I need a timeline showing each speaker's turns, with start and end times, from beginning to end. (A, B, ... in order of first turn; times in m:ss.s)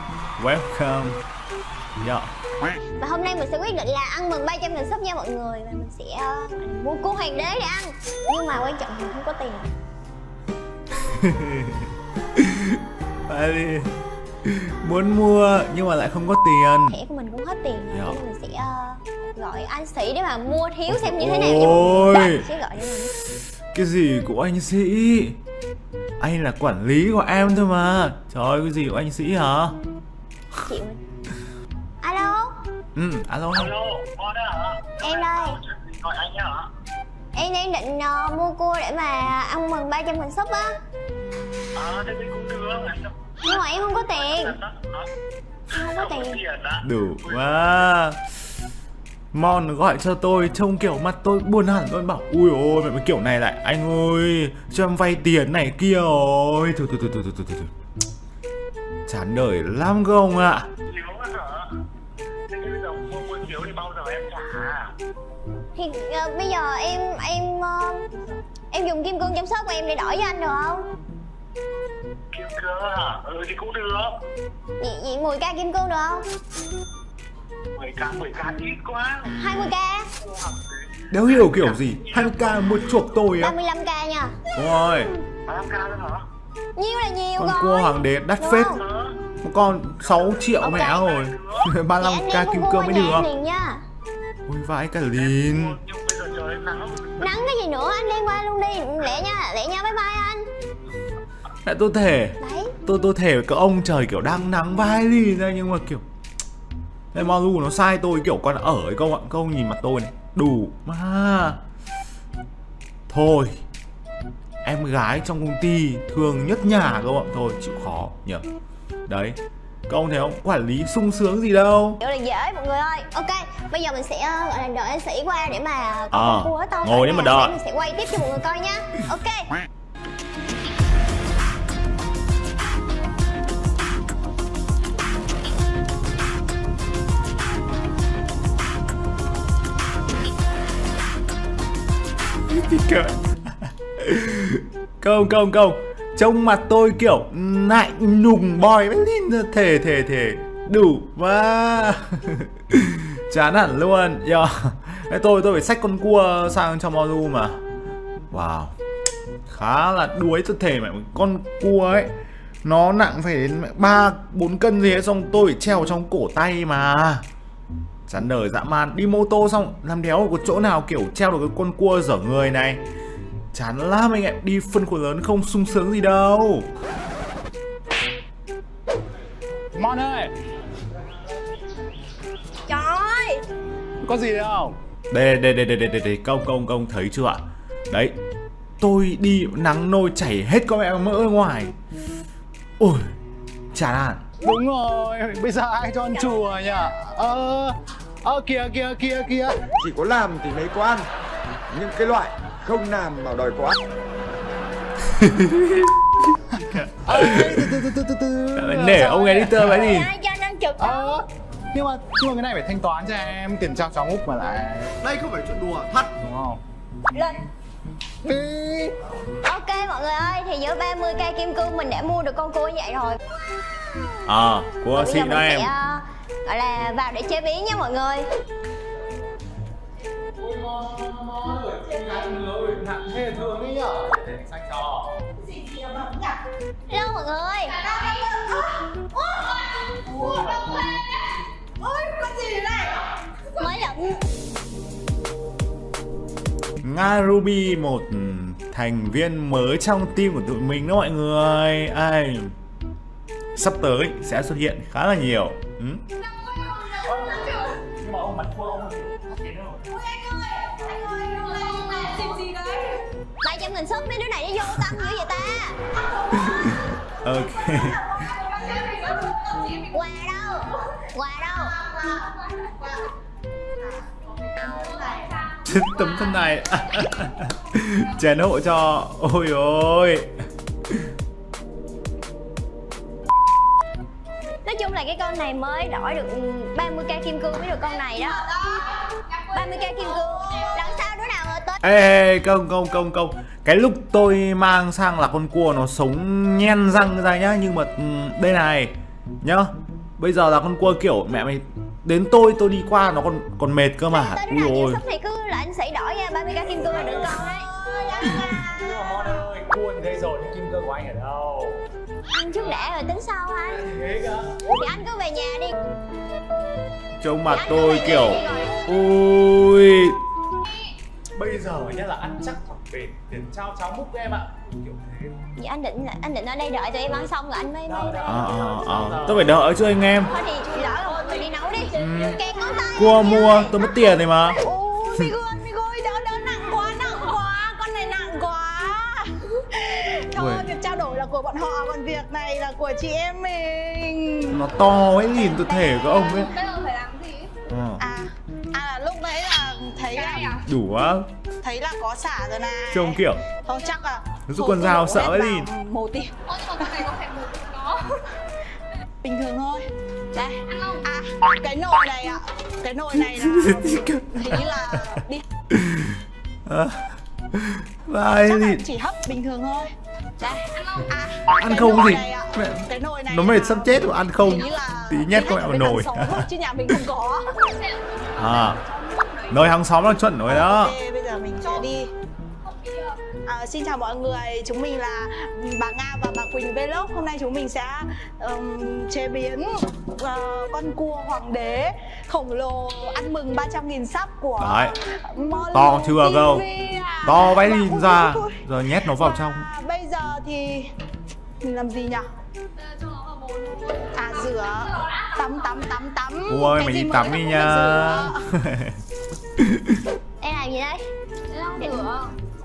0:00.4-0:01.2 A
0:02.0-0:02.3 A
0:03.0-0:09.7 B
0:11.0-0:17.0 A
0:16.9-0:23.2 B
0:17.9-0:18.2 A
0:20.9-0:22.4 A
0:23.7-0:25.4 A
0:26.2-0:29.8 A
0:30.7-0:31.0 B
0:32.0-0:32.6 B
0:32.9-0:33.8 A
0:33.6-0:36.7 C
0:35.0-0:35.6 B
0:37.3-0:40.8 B
0:41.8-0:43.3 C
0:43.4-0:44.6 B
0:44.2-0:45.1 C
0:45.7-0:46.4 B
0:45.9-0:47.4 C
0:46.8-0:48.2 A
0:49.3-0:57.7 A
0:59.1-1:00.7 A
1:00.8-1:01.8 C
1:02.5-1:04.9 C
1:05.7-1:08.1 B
1:08.7-1:10.9 B
1:12.3-1:14.2 C
1:14.8-1:16.3 B
1:17.7-1:19.3 C
1:19.3-1:20.1 B
1:20.2-1:22.6 C
1:21.1-1:23.5 A
1:23.4-1:24.4 B
1:24.5-1:25.1 A
1:25.4-1:26.3 C
1:26.8-1:28.8 B
1:27.4-1:28.8 A
1:28.8-1:29.2 C
1:29.4-1:33.2 A
1:30.1-1:31.6 C
1:30.6-1:31.1 B
1:32.0-1:33.8 B
1:34.4-1:35.8 A
1:35.2-1:37.2 C
1:37.2-1:40.4 B
1:41.6-1:46.0 A
1:42.4-1:42.7 B
1:47.1-1:51.6 A
1:53.1-1:53.6 A
1:54.6-1:58.4 A
1:59.1-1:59.4 A
1:59.9-2:02.0 A
2:02.0-2:09.5 B
2:06.1-2:07.6 A
2:22.5-2:37.6 A
2:38.3-2:38.7 A
2:39.5-2:47.2 A
2:48.1-2:52.8 A
2:53.5-2:56.7 A
2:59.7-3:00.3 D
3:02.7-3:03.4 B
3:04.0-3:04.8 D
3:05.1-3:08.2 A
3:08.8-3:11.7 A
3:12.8-3:13.1 A
3:13.7-3:14.2 A
3:14.4-3:19.7 D
3:16.0-3:16.9 B
3:19.8-3:21.1 E
3:21.7-3:23.8 E
3:25.1-3:25.9 A
3:26.7-3:27.7 A
3:27.0-3:29.9 D
3:28.5-3:30.1 A
3:29.6-3:31.2 B
3:30.8-3:35.1 D
3:35.1-3:35.9 E
3:36.1-3:36.6 D
3:37.1-3:37.4 B
3:38.2-3:39.0 D
3:39.4-3:43.2 B
3:44.2-3:45.7 A
3:44.9-3:48.2 B
3:50.3-3:55.2 D
3:55.3-3:56.4 F
3:56.9-3:57.8 B
3:57.8-3:58.2 G
3:58.0-4:01.0 F
4:00.0-4:00.8 G
4:01.8-4:03.1 F
4:03.5-4:04.3 B
4:06.8-4:12.5 A
4:13.5-4:16.0 A
4:16.3-4:17.8 G
4:16.9-4:19.9 D
4:19.9-4:22.9 F
4:21.1-4:22.3 G
4:23.4-4:25.8 B
4:26.3-4:28.1 A
4:28.4-4:29.4 F
4:28.5-4:29.9 G
4:29.9-4:31.8 B
4:31.8-4:33.1 F
4:33.8-4:35.3 F
4:34.6-4:36.2 G
4:35.6-4:40.3 A
4:44.6-4:48.4 B
4:49.1-4:50.8 G
4:49.5-4:51.8 B
4:51.8-5:05.0 A
5:04.1-5:08.2 B
5:06.8-5:07.4 D
5:07.9-5:08.7 F
5:08.1-5:11.8 D
5:12.3-5:13.9 B
5:13.8-5:14.6 D
5:14.6-5:15.8 B
5:17.2-5:20.2 A
5:17.5-5:18.8 B
5:21.4-5:25.5 D
5:25.5-5:28.4 B
5:27.9-5:29.7 D
5:28.2-5:30.4 A
5:30.2-5:33.9 B
5:30.7-5:32.9 F
5:32.0-5:32.4 A
5:32.9-5:34.6 A
5:34.5-5:35.2 B
5:34.9-5:44.6 F
5:40.3-5:40.7 A
5:44.5-5:46.5 A
5:45.6-5:47.5 G
5:47.6-5:48.0 A
5:48.0-5:50.6 F
5:50.1-5:50.6 G
5:50.6-5:51.3 A
5:51.6-5:57.0 F
5:52.9-5:53.4 A
5:54.5-5:55.7 A
5:56.5-5:58.3 G
5:59.2-6:05.4 F
6:00.7-6:01.1 G
6:03.2-6:05.2 A
6:05.7-6:08.8 A
6:08.4-6:17.6 F
6:10.6-6:11.1 G
6:11.5-6:16.4 A
6:17.6-6:19.6 G
6:18.4-6:18.8 A
6:19.5-6:21.0 A
6:20.4-6:22.1 F
6:22.6-6:23.2 G
6:23.4-6:40.9 F
6:34.6-6:34.9 A
6:35.7-6:36.6 A
6:37.2-6:39.7 A
6:41.6-6:42.2 F
6:42.8-6:45.9 G
6:44.1-6:48.4 F
6:46.5-6:49.0 A
6:49.6-6:50.0 A
6:50.4-6:51.0 B
6:51.5-6:52.3 G
6:51.8-6:52.3 B